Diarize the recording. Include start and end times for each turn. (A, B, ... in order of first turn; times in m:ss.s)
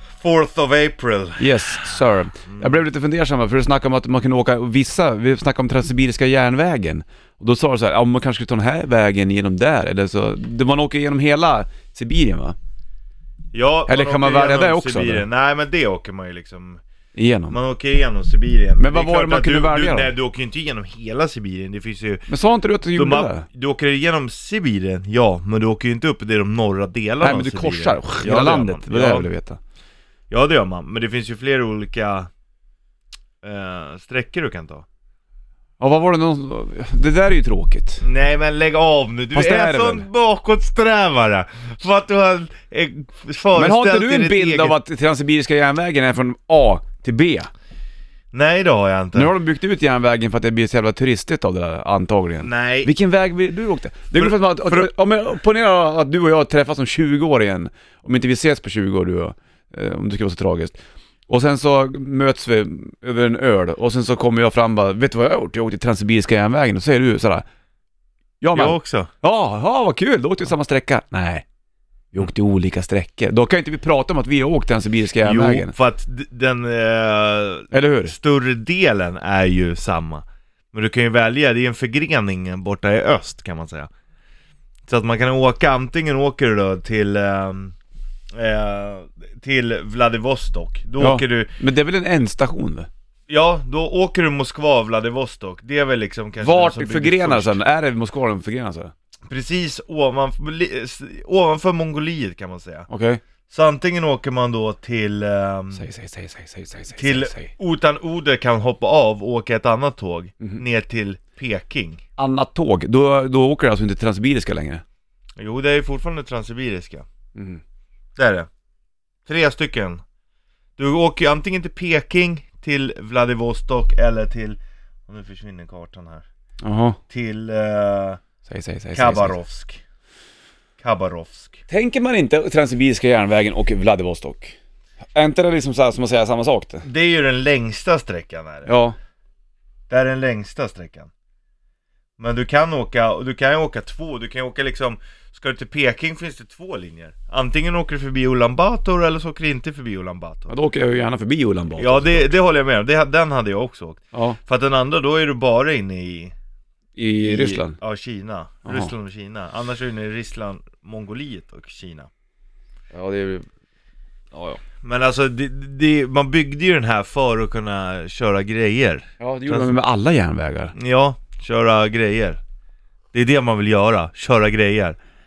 0:00.2-0:01.9 A
0:01.4-0:12.6 B
0:02.4-0:02.7 A
0:13.5-0:16.8 A
0:13.9-0:15.2 B
0:17.1-0:17.6 B
0:17.5-0:22.3 A
0:18.8-0:20.1 B
0:22.3-0:23.4 B
0:22.9-0:29.3 A
0:27.2-0:29.6 B
0:30.3-0:32.3 A
0:33.4-0:34.8 A
0:35.8-0:38.0 B
0:38.0-0:44.7 A
0:39.3-0:40.1 B
0:43.6-0:47.5 B
0:48.3-0:49.3 A
0:49.1-1:07.4 B
0:52.4-0:52.9 A
0:54.2-0:54.9 A
1:08.4-1:11.4 B
1:08.5-1:09.1 A
1:12.1-1:15.7 B
1:15.2-1:23.9 A
1:17.7-1:18.1 B
1:24.9-1:27.7 A
1:28.3-1:31.5 A
1:31.0-1:32.9 B
1:33.3-1:37.6 A
1:36.4-1:38.9 B
1:39.3-1:42.9 A
1:42.9-1:43.2 B
1:43.5-1:45.8 A
1:45.7-1:47.5 B
1:47.0-1:52.0 A
1:52.2-1:54.8 B
1:55.4-1:57.0 A
1:57.4-1:57.6 B
1:58.2-1:58.5 A
1:59.2-2:00.0 A
2:00.8-2:06.2 A
2:06.6-2:07.0 B
2:07.1-2:08.2 A
2:08.4-2:09.4 B
2:08.9-2:09.8 A
2:10.8-2:11.6 A
2:11.7-2:14.5 B
2:15.1-2:16.8 B
2:16.8-2:18.7 A
2:18.6-2:19.0 B
2:19.9-2:21.1 A
2:22.2-2:30.5 A
2:30.5-2:32.3 B
2:31.8-2:36.3 A
2:34.1-2:34.4 B
2:37.0-2:37.8 B
2:37.2-2:42.1 A
2:38.6-2:38.9 B
2:42.9-2:43.5 B
2:44.3-2:44.6 B
2:44.8-2:49.8 A
2:49.2-2:50.7 B
2:50.7-2:52.4 A
2:53.1-2:55.0 A